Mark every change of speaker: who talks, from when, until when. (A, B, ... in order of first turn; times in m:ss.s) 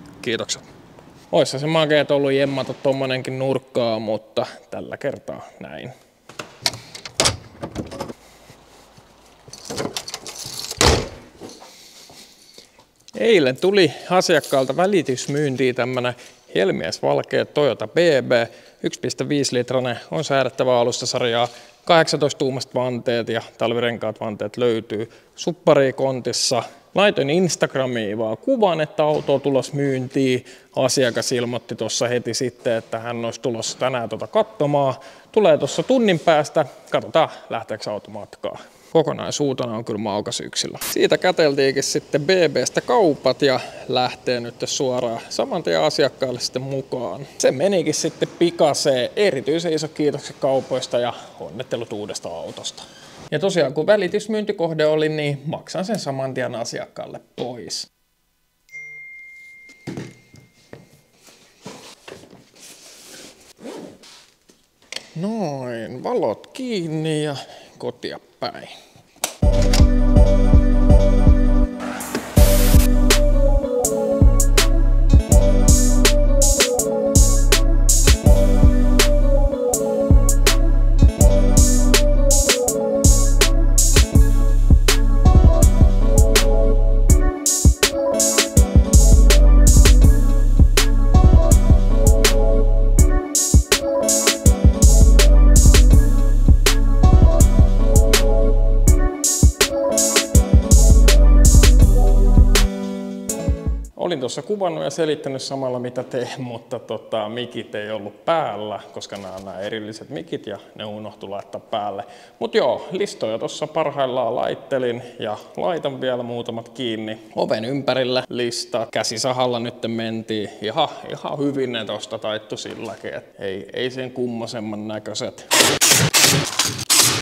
0:00.2-0:00.7 A
0:01.3-0:05.9 A
0:13.1-0:57.9 A
1:05.1-1:08.8 A
1:44.0-2:05.5 A